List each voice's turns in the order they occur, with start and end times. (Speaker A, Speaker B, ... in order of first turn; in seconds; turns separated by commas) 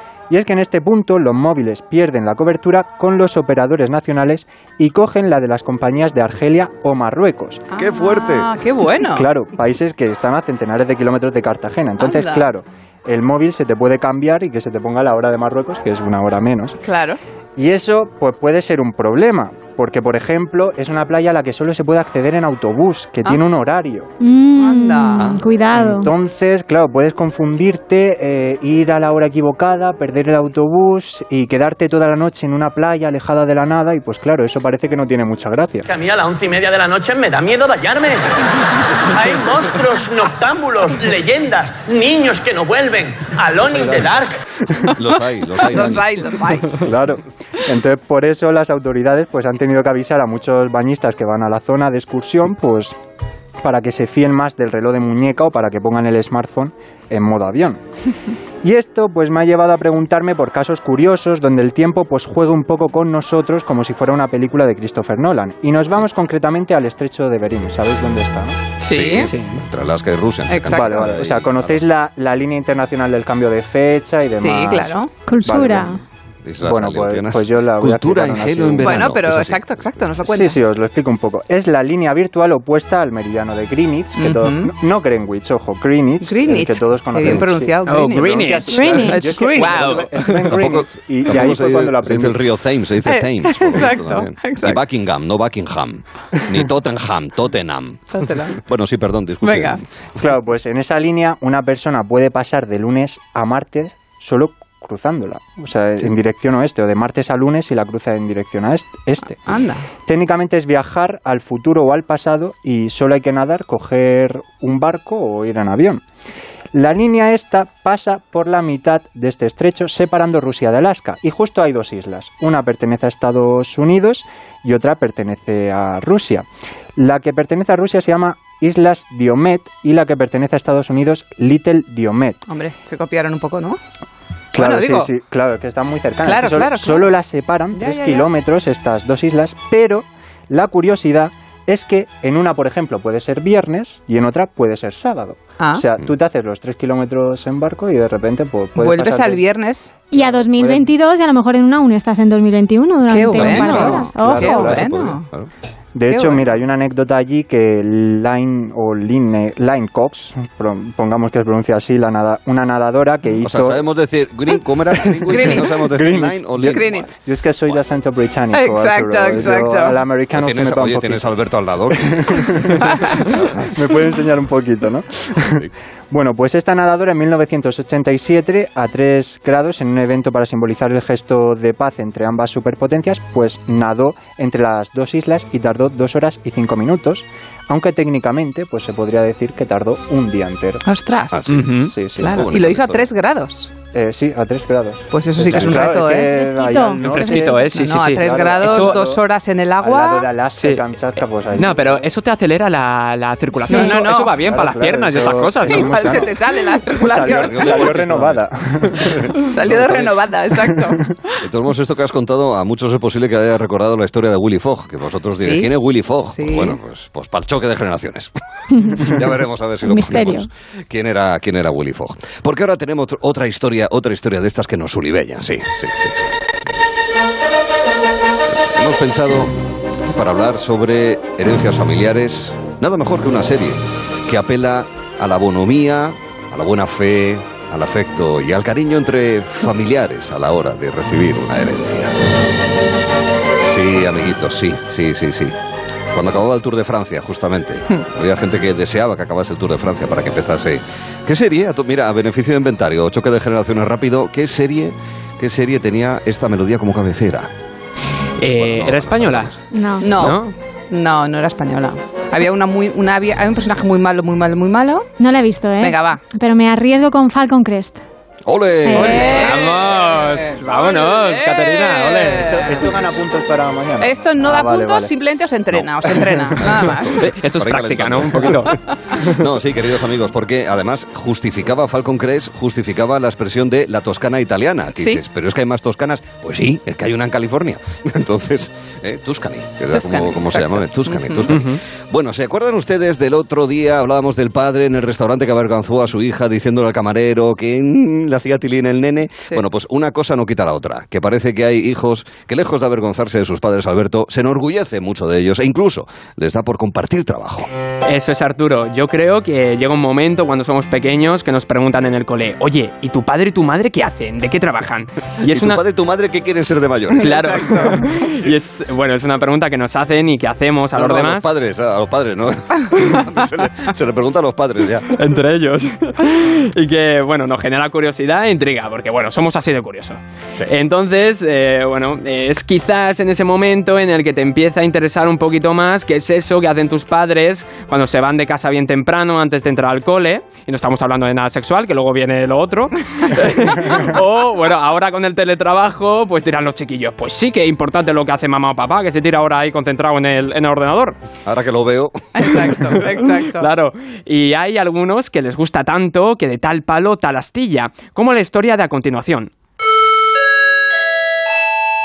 Speaker A: 0.3-7.6, Speaker B: 7.8-9.3, Speaker C: 7.8-8.5, Speaker A: 9.1-16.8, Speaker B: 12.0-12.5, Speaker B: 16.8-17.2, Speaker A: 17.6-24.1, Speaker D: 24.2-26.1, Speaker B: 24.6-25.3, Speaker C: 25.2-25.4, Speaker A: 25.7-35.9, Speaker E: 35.9-38.3, Speaker E: 39.1-44.3, Speaker C: 43.5-44.2, Speaker C: 44.9-46.0, Speaker B: 45.6-46.9, Speaker A: 46.8-53.0, Speaker A: 53.6-57.8, Speaker A: 58.6-68.6, Speaker B: 68.8-69.3, Speaker C: 68.9-71.8, Speaker F: 69.2-69.6, Speaker B: 70.5-71.1, Speaker A: 70.7-76.0, Speaker B: 74.3-75.1, Speaker D: 75.3-76.0, Speaker C: 76.5-79.8, Speaker A: 76.6-79.1, Speaker B: 78.8-80.6, Speaker A: 80.2-92.4, Speaker B: 84.2-84.7, Speaker B: 86.2-90.1, Speaker F: 87.8-88.6, Speaker D: 88.7-90.3, Speaker C: 90.4-99.8, Speaker B: 93.0-94.8, Speaker B: 98.1-98.6, Speaker B: 99.4-99.8, Speaker A: 100.2-109.5, Speaker B: 109.5-109.8, Speaker A: 110.0-116.0, Speaker A: 116.7-126.5, Speaker A: 127.0-132.4, Speaker B: 132.5-133.8, Speaker A: 134.5-149.4, Speaker B: 134.5-135.1, Speaker B: 136.2-137.1, Speaker B: 137.7-138.3, Speaker B: 145.6-145.8, Speaker B: 148.8-149.9, Speaker D: 150.1-154.8, Speaker A: 150.1-150.9, Speaker B: 153.1-155.3, Speaker A: 153.4-155.1, Speaker C: 153.6-155.5, Speaker A: 155.9-163.8, Speaker B: 156.1-156.5, Speaker C: 163.4-167.0, Speaker A: 164.9-165.2, Speaker B: 165.3-165.9, Speaker A: 165.7-190.8, Speaker B: 166.7-167.1, Speaker B: 168.5-170.0, Speaker C: 170.3-173.7, Speaker B: 190.8-191.6, Speaker C: 191.3-191.7, Speaker F: 191.5-192.0, Speaker A: 191.7-192.5, Speaker B: 192.1-193.7, Speaker C: 192.2-193.1, Speaker A: 193.9-199.2, Speaker B: 195.1-196.3, Speaker C: 195.5-195.9, Speaker D: 196.2-197.4, Speaker F: 197.1-199.0, Speaker B: 197.7-200.3, Speaker A: 199.8-202.0, Speaker F: 200.5-200.8, Speaker F: 201.5-206.0, Speaker B: 203.6-204.4, Speaker A: 204.4-209.2, Speaker B: 205.6-208.0, Speaker C: 207.3-210.2, Speaker B: 209.4-211.2, Speaker C: 211.4-218.3, Speaker B: 215.4-216.8, Speaker D: 218.7-219.1, Speaker C: 218.9-226.3, Speaker D: 219.8-220.5, Speaker C: 228.5-229.5, Speaker C: 230.1-242.2, Speaker C: 243.6-245.5, Speaker C: 246.1-257.5, Speaker F: 258.4-259.5, Speaker C: 258.5-259.6, Speaker D: 259.7-260.1, Speaker B: 260.0-265.1, Speaker C: 260.1-260.4, Speaker F: 260.2-260.5, Speaker D: 265.2-268.0, Speaker B: 265.8-266.2, Speaker C: 268.5-270.0, Speaker D: 268.8-269.4, Speaker B: 268.9-272.9, Speaker F: 269.4-272.5, Speaker A: 272.4-275.1, Speaker B: 274.0-277.2, Speaker C: 276.6-307.7, Speaker F: 277.2-279.5, Speaker B: 284.9-285.2, Speaker B: 289.9-291.8, Speaker F: 308.1-315.8, Speaker C: 315.4-318.5, Speaker B: 317.1-318.1, Speaker F: 317.2-321.5, Speaker C: 320.9-325.2, Speaker F: 325.1-351.2, Speaker C: 351.4-352.5, Speaker B: 352.4-353.6, Speaker F: 352.6-359.5